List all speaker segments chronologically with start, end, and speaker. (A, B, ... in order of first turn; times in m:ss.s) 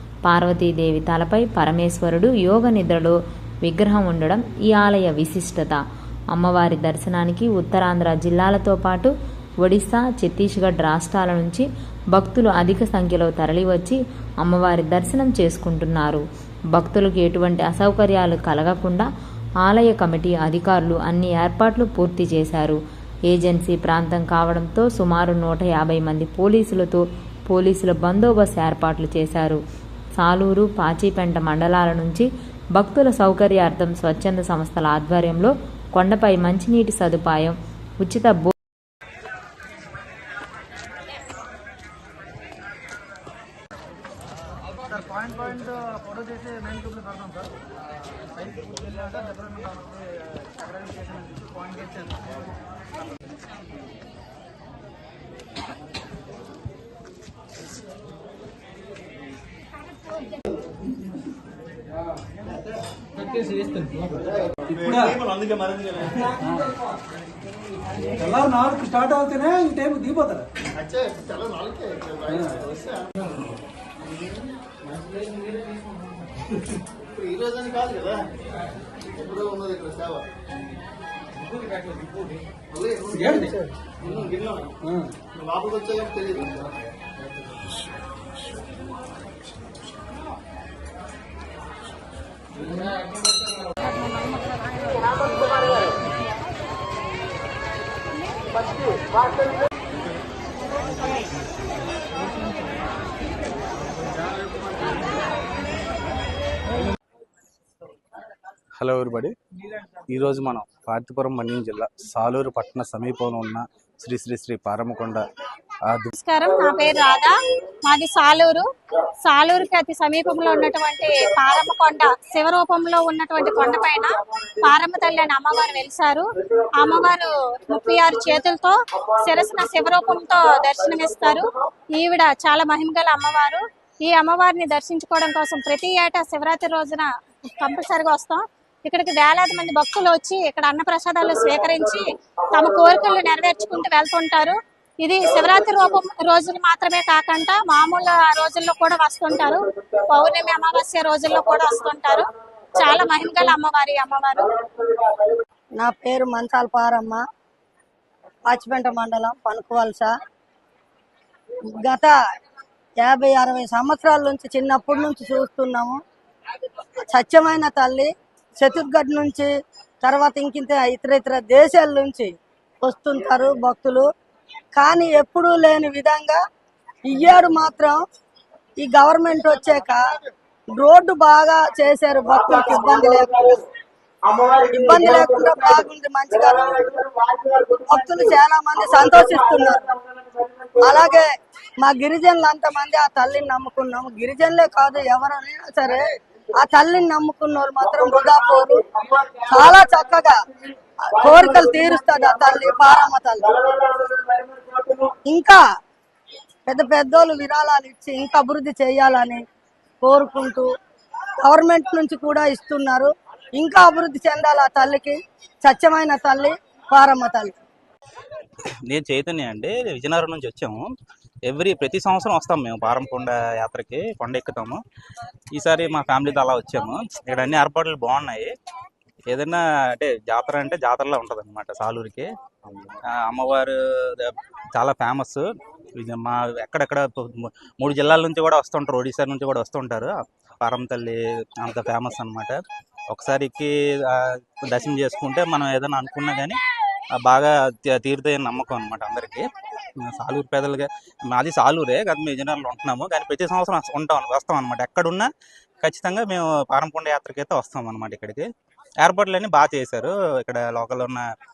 0:00.2-0:09.1 A
0:09.6-0:19.1 A
0:19.6-0:29.6 A
0:30.2-0:38.5 A
1:03.5-1:04.1 B
1:04.7-1:05.1 B
1:04.8-1:06.0 C
1:08.2-1:10.5 B
1:10.8-1:13.0 C
1:17.1-1:18.2 C
1:19.2-1:20.2 C
1:22.7-1:23.6 C
1:23.1-1:23.5 B
1:24.1-1:24.7 C
1:25.3-1:26.6 C
1:48.8-1:49.3 D
1:50.1-1:55.2 D
1:56.2-1:58.6 E
1:59.2-2:17.1 E
2:17.6-2:34.5 E
2:35.8-2:37.2 F
2:38.5-2:40.1 F
2:41.8-2:42.1 F
2:43.0-2:46.0 F
2:47.1-2:49.5 F
2:50.0-2:52.3 F
2:52.8-2:54.1 F
2:54.8-2:56.4 F
2:57.1-2:58.0 F
2:58.8-3:00.0 F
3:00.8-3:03.6 F
3:04.6-3:06.8 F
3:07.9-3:09.8 F
3:10.8-3:11.3 F
3:11.8-3:16.0 F
3:16.6-3:18.8 F
3:19.5-3:20.4 F
3:21.0-3:23.4 F
3:25.3-3:25.6 F
3:26.7-3:29.4 F
3:30.0-3:30.7 F
3:31.4-3:37.5 F
3:38.9-3:40.9 G
3:41.5-3:44.8 G
3:45.6-3:48.5 G
3:49.3-3:52.3 G
3:53.1-3:55.4 G
3:56.0-4:06.6 G
4:07.2-4:09.4 G
4:10.0-4:15.3 G
4:15.8-4:18.4 G
4:19.0-4:21.2 G